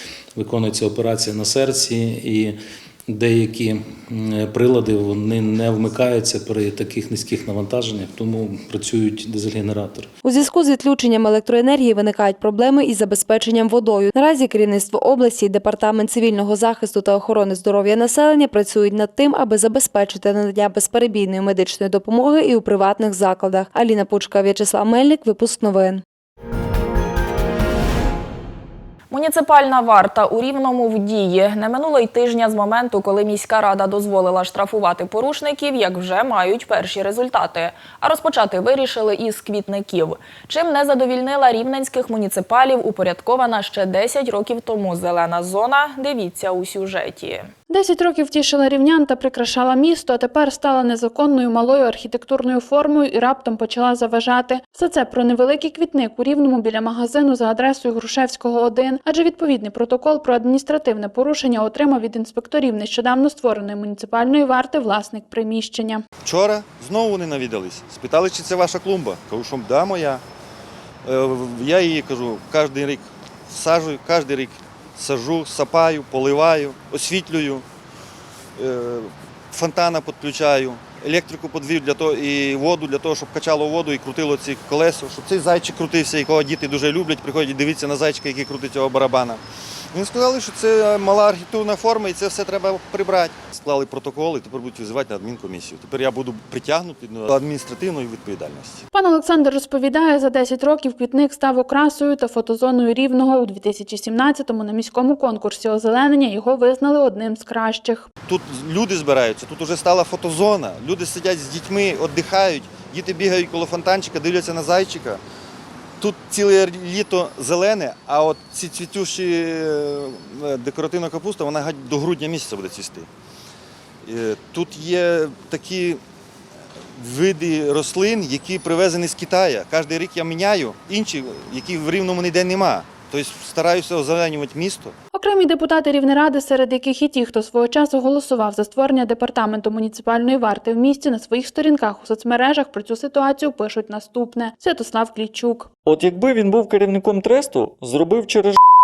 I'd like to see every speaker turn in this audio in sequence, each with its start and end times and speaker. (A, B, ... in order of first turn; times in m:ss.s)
0:00.4-0:10.1 A
0:10.2-0:26.0 B
0:29.1-0:47.5 C
0:47.7-1:06.0 D
1:06.2-1:10.2 E
1:11.0-1:17.6 E
1:18.6-1:29.4 E
1:29.9-1:38.8 E
1:38.9-1:48.1 D
1:48.3-1:55.2 E
1:56.0-2:03.1 E
2:04.0-2:06.0 E
2:07.0-2:15.0 E
2:15.1-2:25.7 D
2:25.8-2:28.6 F